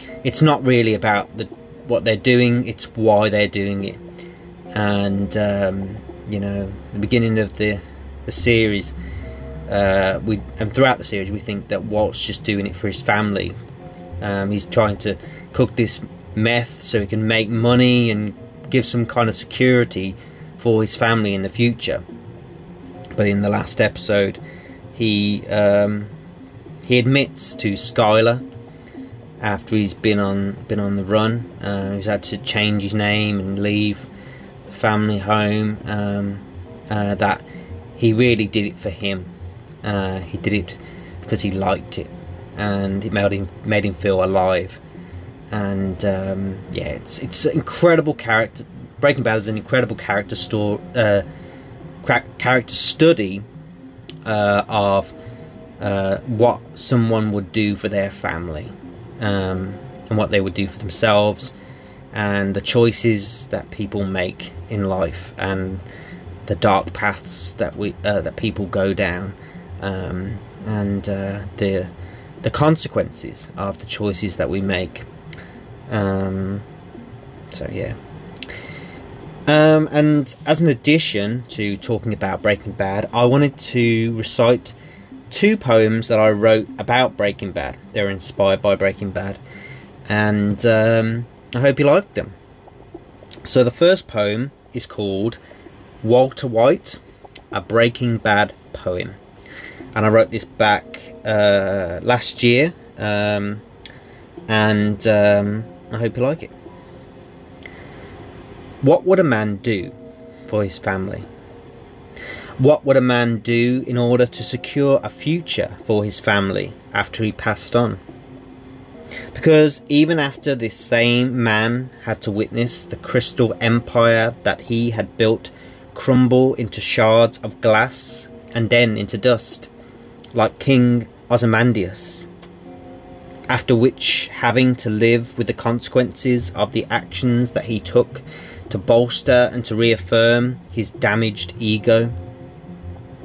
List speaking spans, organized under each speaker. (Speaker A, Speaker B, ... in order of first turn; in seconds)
Speaker A: 0.2-4.0, 4.7-8.9, 9.7-13.6, 14.2-22.0, 23.1-24.4, 24.9-26.1, 26.8-28.4, 29.4-34.1, 34.7-39.3, 39.8-44.8, 45.5-51.2, 52.0-53.5, 54.2-55.1, 55.8-61.5, 62.1-65.8, 66.5-71.9, 72.4-75.1, 75.9-76.7, 77.5-78.0, 79.5-84.8, 85.3-89.4, 90.1-92.4, 93.5-95.4, 96.0-97.0, 97.5-99.2, 100.0-103.6, 104.5-106.5, 108.8-109.9, 110.5-111.3, 112.6-118.0, 119.3-129.7, 130.3-132.3, 133.5-142.1